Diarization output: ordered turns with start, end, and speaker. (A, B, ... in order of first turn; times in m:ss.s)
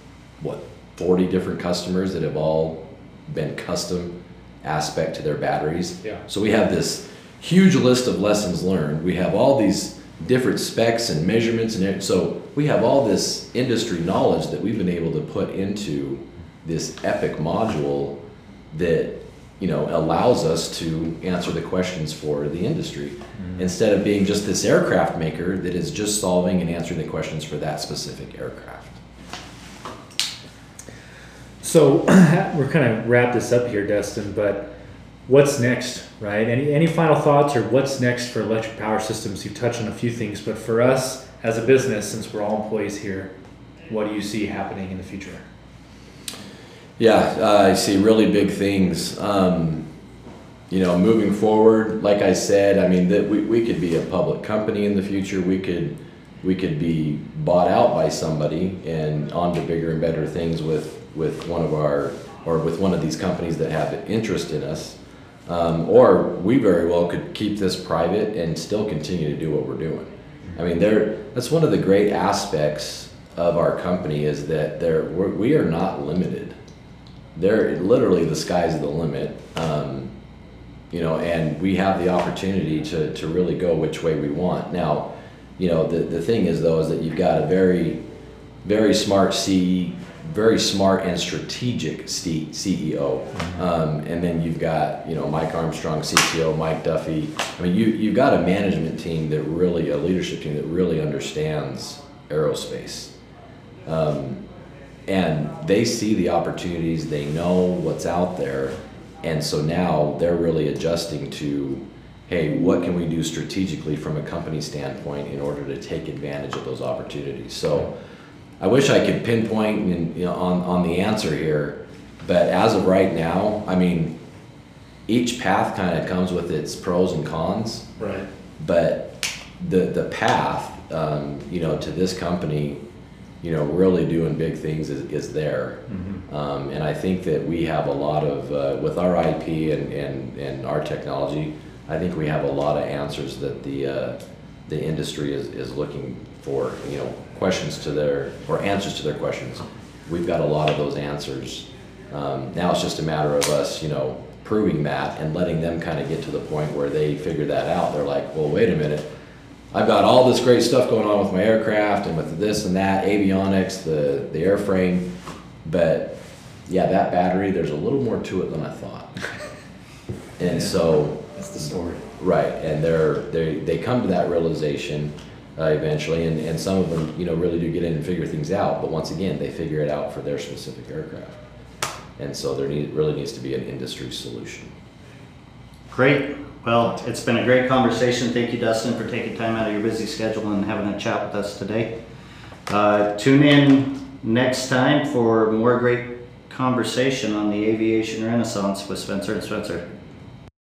0:00.4-0:18.2 A
0:18.7-0:29.0 A
0:23.4-0:23.6 B
0:31.6-0:34.7 B
0:35.3-0:43.3 B
0:43.9-0:45.5 B
0:47.0-0:49.9 A
0:50.7-1:16.6 A
1:17.4-1:20.1 A
1:20.9-1:28.0 A
1:28.6-1:43.1 A
1:43.8-1:44.4 A
1:45.1-1:58.0 A
1:58.6-2:04.2 A
2:05.1-2:07.9 A
2:08.0-2:08.3 B
2:08.6-2:12.8 A
2:13.4-2:39.1 A
2:15.9-2:16.2 B
2:39.7-2:45.1 A
2:45.6-2:49.2 A
2:50.4-3:01.4 A
2:50.5-2:50.7 B
2:51.4-2:52.0 B
3:02.2-3:04.7 A
3:05.9-3:12.0 C
3:12.7-3:19.9 C